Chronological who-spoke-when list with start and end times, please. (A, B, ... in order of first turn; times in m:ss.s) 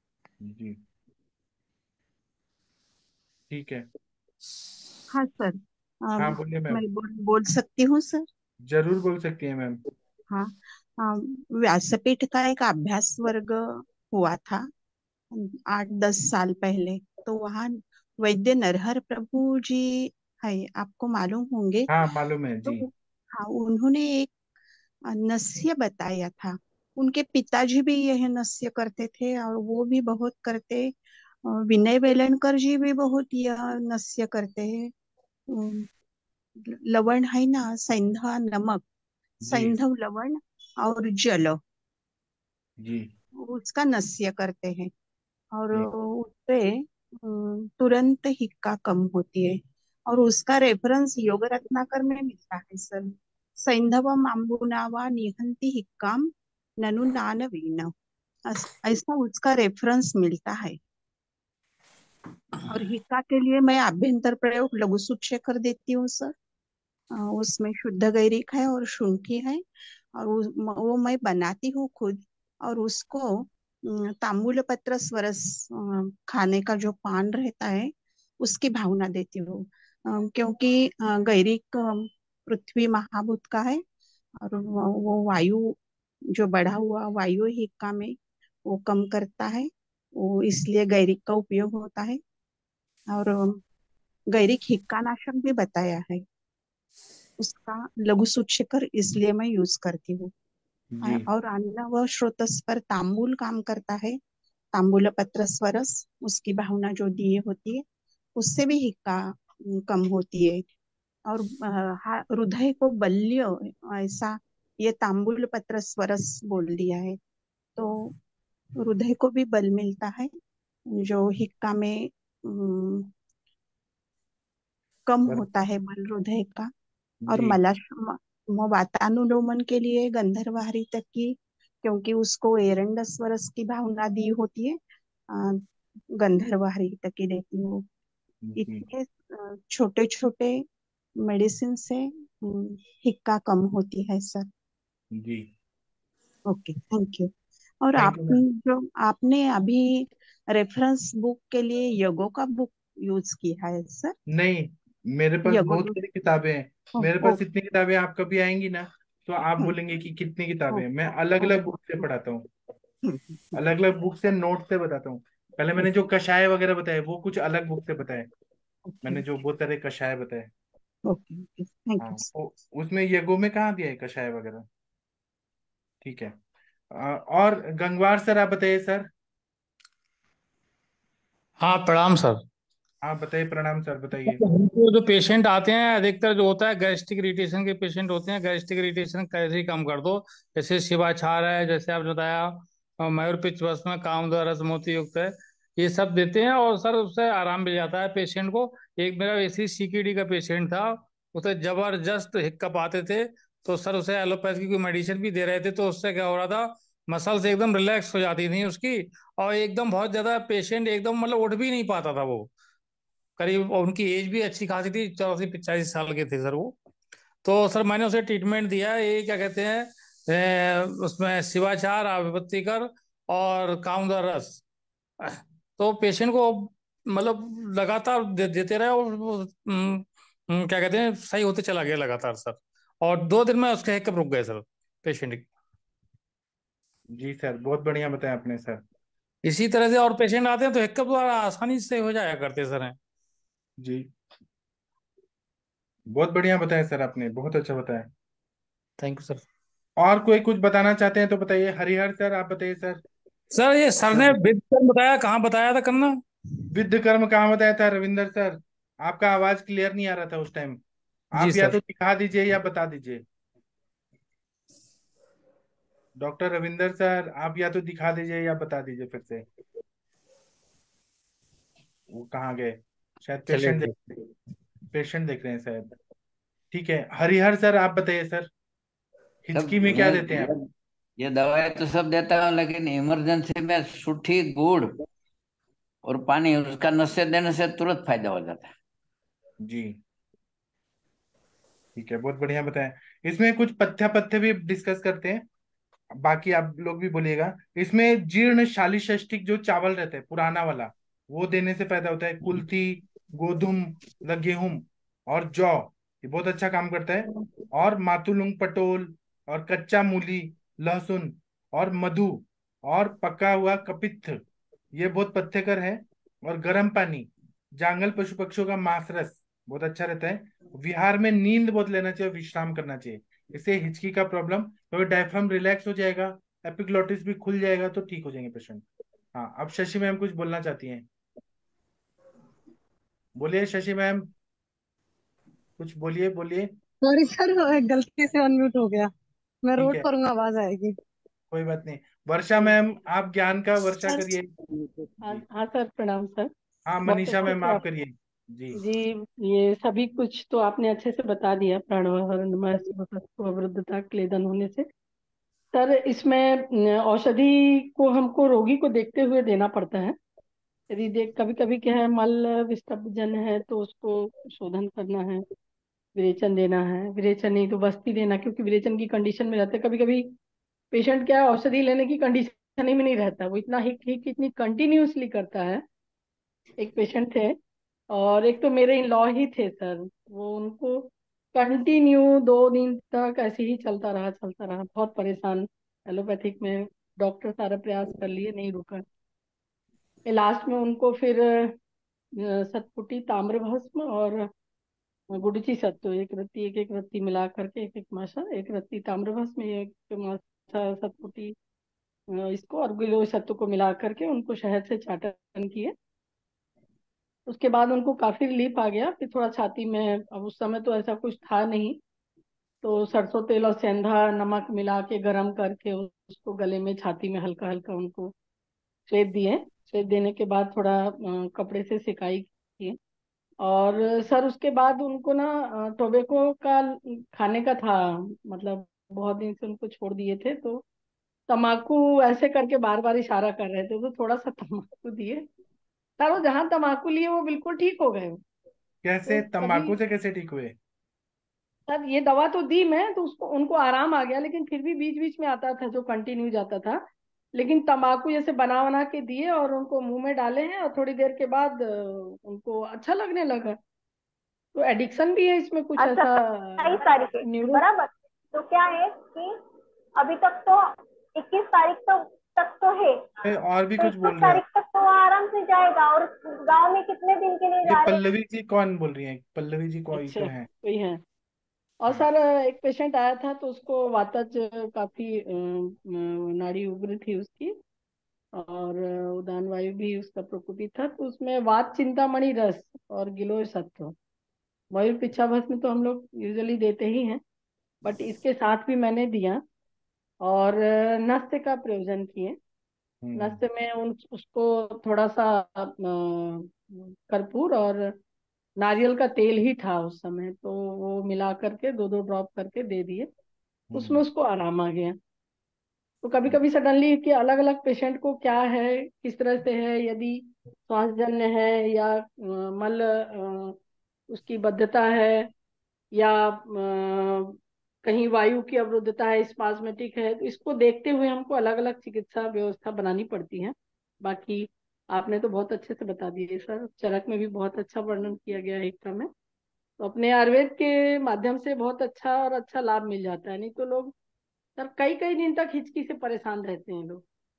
0:00.4-0:00.8 A
0:03.5-0:03.8 A
0:05.1-0:08.3 B
0:06.2-0:06.8 A
0:08.7-0:09.8 A
0:10.3-0:14.7 B
0:15.3-0:21.9 B
0:21.9-0:22.9 A
0:22.7-0:24.3 B
0:25.1-0:31.0 B
0:31.5-0:34.9 B
0:35.5-0:35.9 B
0:36.6-0:38.8 B
0:39.4-0:39.8 A
0:39.5-0:41.6 B
0:42.8-0:43.1 A
0:43.4-0:44.9 B
0:45.5-0:57.9 B
0:58.5-1:00.8 B
1:02.7-1:06.3 B
1:07.1-1:09.6 B
1:10.2-1:23.8 B
1:24.4-1:25.8 B
1:26.3-1:32.2 B
1:33.1-1:33.6 B
1:34.3-1:36.2 B
1:37.4-1:40.3 B
1:40.9-1:41.3 A
1:41.0-1:44.2 B
1:44.7-1:47.8 B
1:48.4-1:50.6 B
1:51.3-1:57.2 B
1:57.8-1:58.1 B
1:58.8-2:00.3 B
2:00.9-2:03.1 B
2:05.1-2:06.7 B
2:07.3-2:07.6 A
2:07.3-2:14.8 B
2:15.3-2:15.6 B
2:16.2-2:17.8 B
2:18.4-2:18.8 A
2:18.6-2:20.6 B
2:21.2-2:24.5 B
2:25.1-2:25.5 A
2:26.5-2:27.3 B
2:27.8-2:34.2 B
2:28.0-2:28.4 A
2:34.3-2:42.5 A
2:35.5-2:36.0 B
2:37.0-2:37.4 B
2:43.1-2:43.5 B
2:43.6-2:48.3 A
2:48.9-2:49.2 B
2:49.0-2:50.5 A
2:51.1-2:52.3 B
2:52.0-2:54.7 A
2:56.0-2:56.3 A
2:56.9-2:59.1 A
3:01.6-3:02.4 C
3:03.0-3:04.4 A
3:04.3-3:32.5 C
3:33.4-3:36.8 C
3:37.4-3:44.6 C
3:45.2-3:55.5 C
3:57.1-3:58.8 A
3:59.4-4:03.0 C
4:03.8-4:04.1 A
4:06.1-4:08.1 A
4:09.0-4:09.4 C
4:10.0-4:13.0 A
4:13.5-4:16.2 C
4:14.1-4:14.4 A
4:16.7-4:20.8 A
4:21.3-4:23.2 A
4:21.4-4:21.8 C
4:26.2-4:29.4 A
4:32.1-4:33.9 A
4:33.5-4:33.9 C
4:34.9-4:35.9 A
4:36.7-4:38.5 A
4:39.5-4:40.5 A
4:39.6-4:40.6 D
4:41.2-4:45.0 D
4:46.0-4:48.7 D
4:49.6-4:50.0 A
4:52.0-4:55.4 A
4:56.2-5:14.4 A
5:15.0-5:28.8 A
5:29.3-5:31.1 A
5:33.4-5:34.3 A
5:35.8-5:36.7 A
5:37.0-5:39.1 E
5:39.6-5:41.0 E
5:39.8-5:40.1 A
5:41.5-5:44.5 A
5:45.2-5:46.5 F
5:46.9-5:48.8 A
5:47.1-5:47.8 F
5:48.8-5:54.9 F
5:55.7-6:00.2 F
6:00.9-6:05.4 F
6:06.2-6:10.3 F
6:10.9-6:15.8 F
6:16.8-6:17.6 F
6:18.1-6:29.0 F
6:30.3-6:31.7 F
6:32.4-6:34.5 F
6:35.3-6:41.6 F
6:42.3-6:45.9 F
6:47.5-6:52.0 F
6:52.8-6:58.3 F
6:59.1-7:03.0 F
7:03.6-7:10.8 F
7:11.5-7:15.5 F
7:16.2-7:18.4 F
7:19.0-7:20.7 A
7:19.3-7:20.0 F
7:21.9-7:27.0 F
7:27.6-7:33.8 F
7:34.8-7:37.8 F
7:36.0-7:39.6 G
7:40.2-7:43.3 G
7:43.4-7:44.6 A
7:44.0-7:48.2 G
7:47.8-7:50.7 A
7:50.1-7:51.2 F
7:52.0-7:57.8 F
7:58.6-8:04.2 F
8:04.9-8:07.4 F
8:08.0-8:09.6 F
8:10.4-8:12.6 F
8:13.2-8:13.6 A
8:13.4-8:18.2 F
8:18.8-8:23.3 F
8:23.9-8:24.3 A
8:23.9-8:25.2 F
8:26.2-8:33.8 F
8:34.3-8:35.5 F
8:36.1-8:49.3 F
8:50.0-8:54.1 F
8:54.8-8:57.2 F